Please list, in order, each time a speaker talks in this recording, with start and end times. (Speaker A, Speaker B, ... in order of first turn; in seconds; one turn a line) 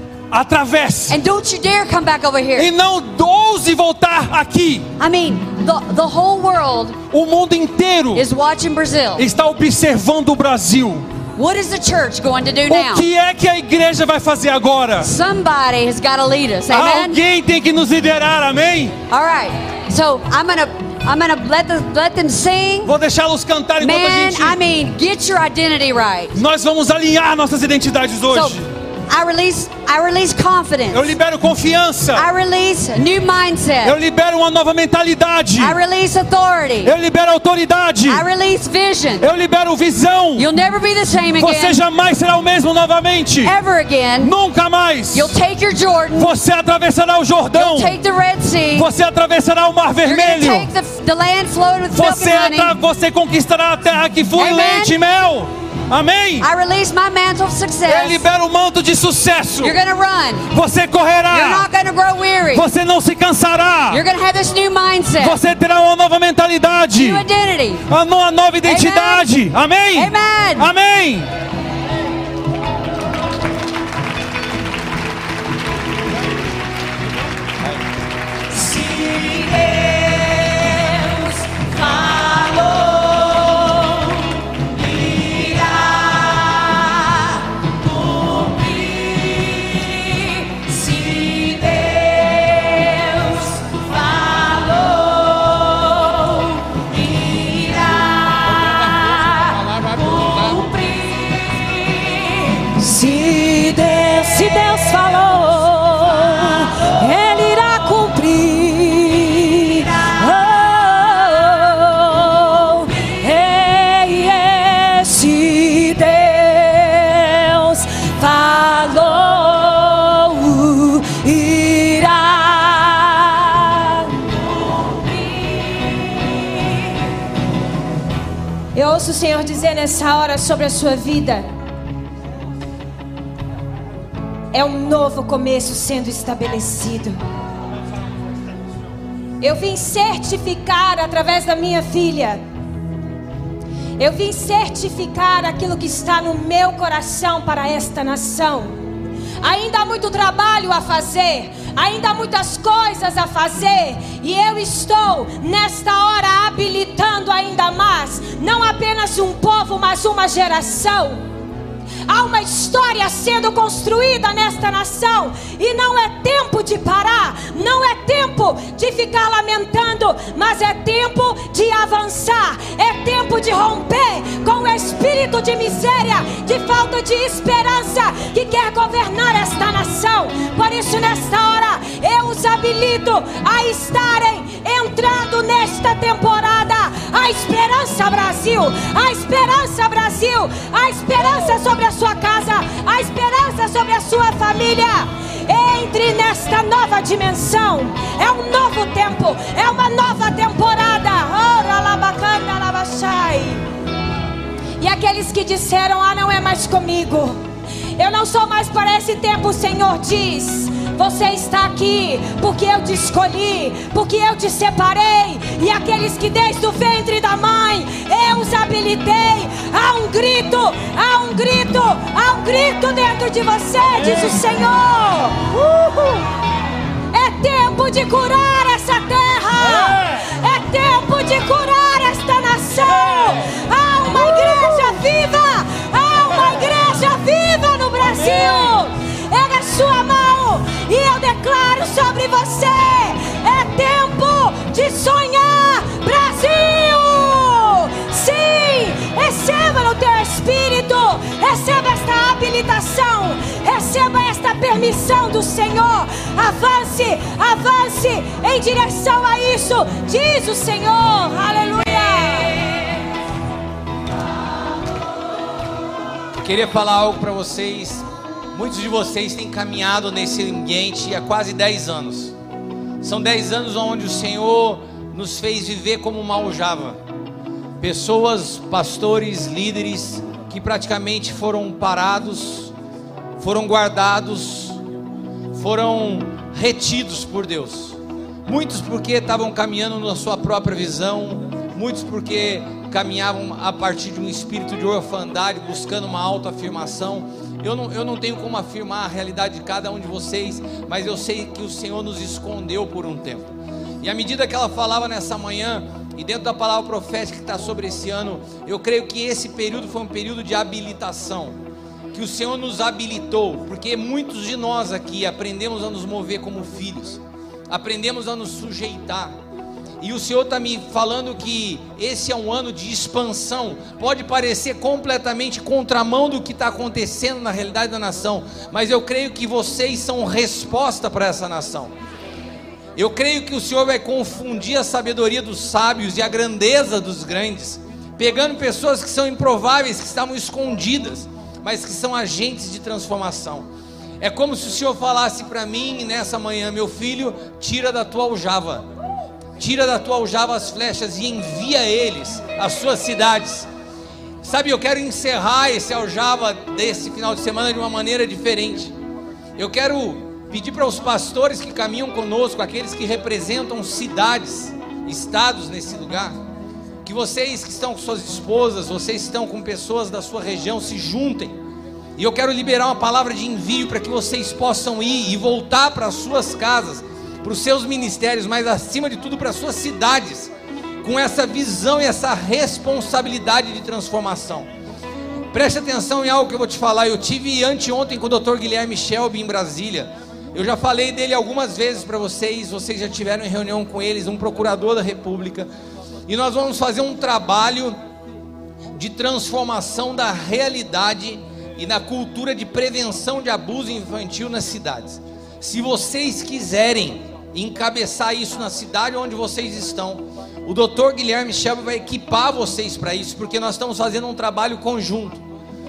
Speaker A: 0.3-1.2
Speaker B: 1.1-2.7
Speaker A: 2.5-4.9
Speaker B: 5.0-7.0
Speaker A: 7.1-8.3
Speaker B: 8.2-9.3
Speaker A: 9.2-11.1
Speaker B: 11.4-13.1
Speaker A: 12.7-15.1
Speaker B: 15.0-17.2
Speaker A: 16.7-19.0
Speaker B: 19.1-22.9
Speaker A: 22.9-24.6
Speaker B: 23.8-26.4
Speaker A: 26.3-28.7
Speaker B: 28.3-31.1
Speaker A: 30.9-32.3
Speaker B: 32.1-34.0
Speaker A: 33.8-35.8
Speaker B: 35.6-36.9
Speaker A: 36.8-38.3
Speaker B: 38.1-39.3
Speaker A: 39.2-40.5
Speaker B: 40.4-41.8
Speaker A: 41.4-43.6
Speaker B: 43.4-44.3
Speaker A: 44.2-45.4
Speaker B: 45.1-46.4
Speaker A: 46.2-48.0
Speaker B: 47.5-48.9
Speaker A: 48.7-50.7
Speaker B: 50.0-52.8
Speaker A: 51.9-56.5
Speaker B: 54.4-55.0
Speaker B: 56.4-58.2
Speaker A: 57.9-59.8
Speaker B: 59.6-60.5
Speaker A: 60.5-61.7
Speaker B: 61.3-62.7
Speaker A: 62.5-64.0
Speaker B: 63.9-65.4
Speaker A: 65.2-67.3
Speaker B: 67.0-67.9
Speaker A: 67.9-71.3
Speaker B: 68.6-69.3
Speaker B: 70.0-70.7
Speaker C: 79.3-79.6
Speaker C: 81.1-84.4
Speaker C: 85.1-86.1
Speaker C: 88.3-126.8
Speaker C: 128.7-131.5
Speaker C: 134.5-137.2
Speaker C: 139.4-142.4
Speaker C: 144.0-148.8
Speaker C: 149.4-161.2
Speaker C: 162.1-203.6
Speaker C: 204.8-207.4
Speaker C: 208.0-226.3
Speaker C: 227.1-262.7
Speaker D: 266.4-272.4
Speaker D: 273.0-277.0
Speaker D: 277.8-282.7
Speaker D: 283.4-284.8
Speaker D: 285.5-311.6
Speaker D: 312.1-319.3
Speaker D: 320.0-331.9
Speaker D: 333.0-343.7
Speaker D: 344.2-348.9
Speaker D: 349.6-353.7
Speaker D: 354.4-358.9
Speaker D: 359.6-366.4
Speaker D: 367.0-371.6
Speaker D: 372.2-384.7
Speaker D: 385.5-395.7
Speaker D: 396.3-397.9
Speaker D: 398.9-415.4